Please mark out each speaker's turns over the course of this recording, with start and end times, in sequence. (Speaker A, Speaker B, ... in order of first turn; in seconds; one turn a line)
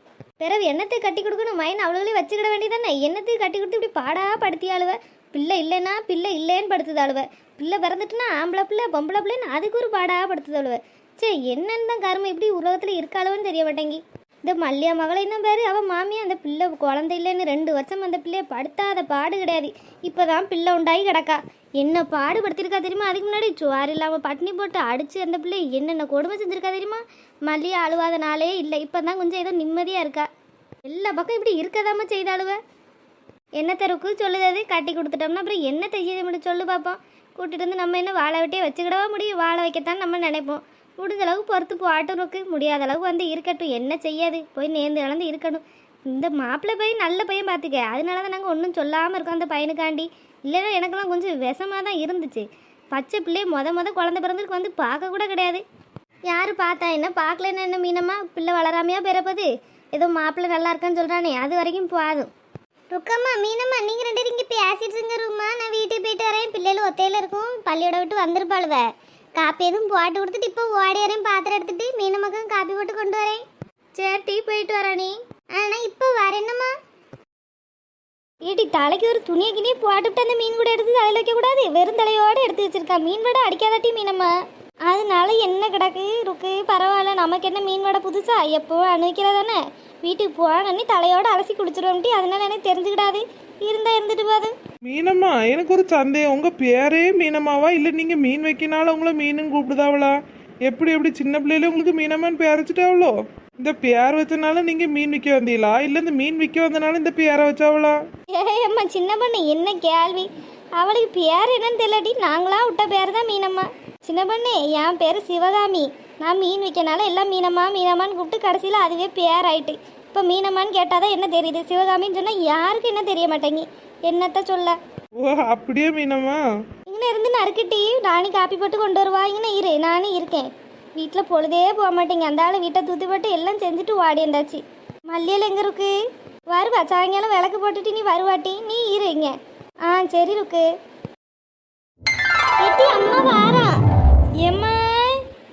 Speaker A: 0.4-30.3
Speaker A: 30.9-32.6
Speaker A: 33.6-55.6
Speaker A: 56.3-62.3
Speaker B: 62.9-68.8
Speaker B: 69.4-73.4
Speaker A: 74.0-75.1
Speaker B: 75.5-76.7
Speaker A: 78.4-84.3
Speaker A: 84.8-94.5
Speaker C: 94.8-108.0
Speaker A: 108.3-124.8
Speaker C: 125.2-126.4
Speaker A: 126.9-135.9
Speaker A: 136.5-139.3
Speaker A: 139.8-140.7
Speaker B: 142.6-143.7
Speaker A: 144.4-145.1